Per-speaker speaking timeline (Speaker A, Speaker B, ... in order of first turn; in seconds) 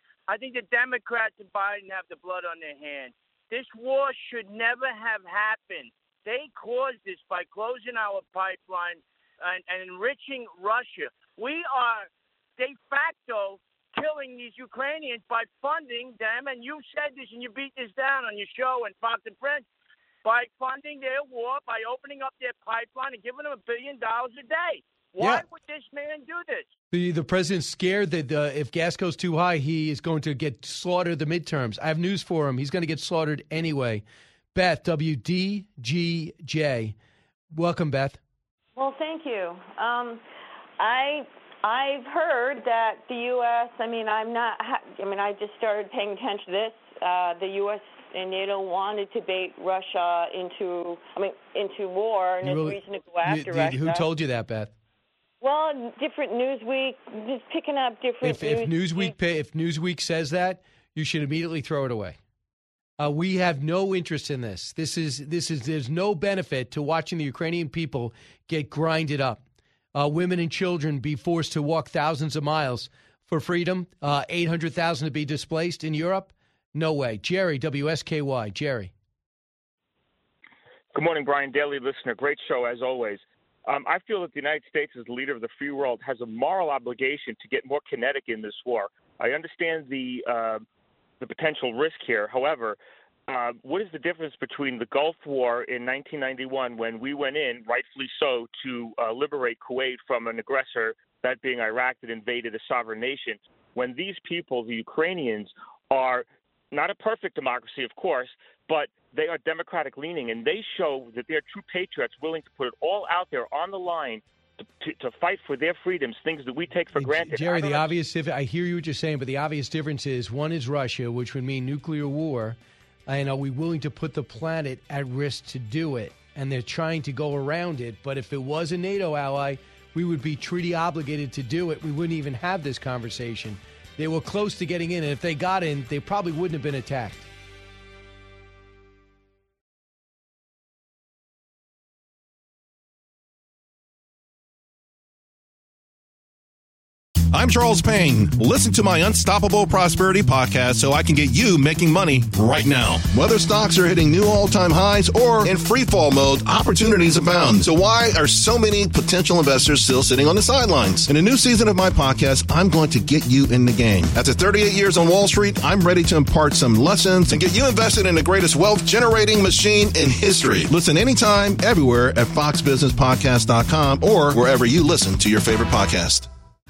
Speaker A: 0.3-19.6, 20.2-26.7
Speaker B: 26.9-34.0, 34.5-37.0, 37.5-38.2, 52.4-54.7, 58.2-62.2, 63.0-69.4, 70.0-78.9, 116.9-137.3
Speaker C: 38.8-40.2, 40.8-54.1, 55.4-59.1
Speaker D: 80.9-90.6, 91.2-117.9
Speaker E: 147.3-176.3